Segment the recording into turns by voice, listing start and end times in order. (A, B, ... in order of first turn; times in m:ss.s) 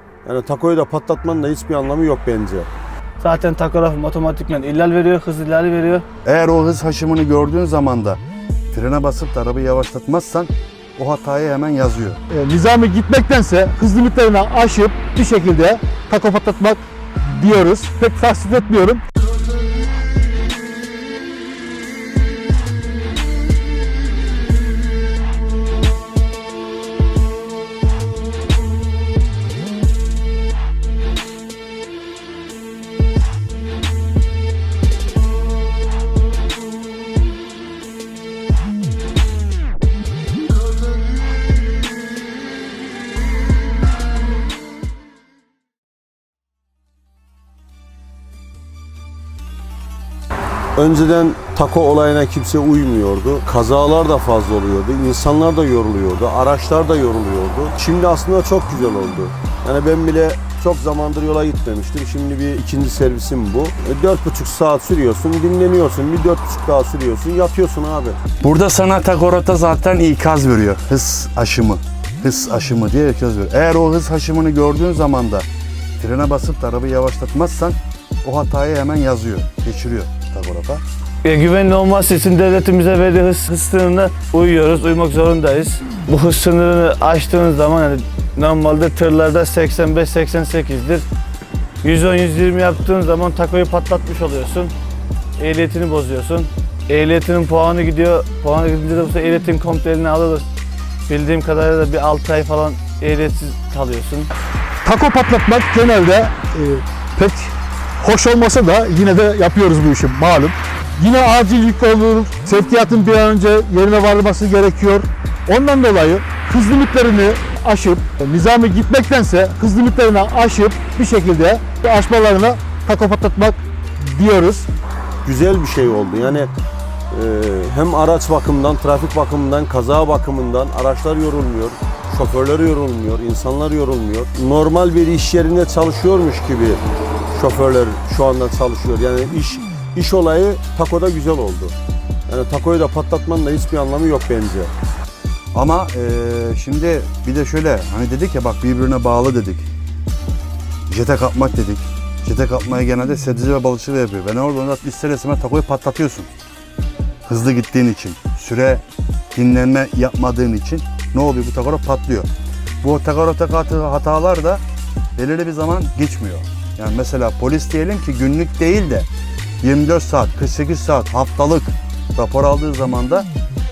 0:00.2-0:02.7 A
0:03.2-0:06.0 B
0:06.2-0:12.2 C
0:12.3-0:19.0 D
0:50.8-1:08.2 A
1:08.4-1:15.4 C
1:16.0-1:20.8 C
1:21.2-1:31.0 B
1:31.8-1:34.7 B
1:35.4-1:40.4 B
1:41.1-1:44.3 B
1:44.8-2:04.7 D
2:05.2-2:06.5 A
2:07.1-2:16.8 A
2:17.3-2:21.8 A
2:22.3-2:24.7 A
2:25.5-2:29.7 C
2:30.9-2:36.3 C
2:37.3-2:42.3 C
2:42.8-2:44.6 C
2:45.2-2:49.1 C
2:49.6-2:53.3 C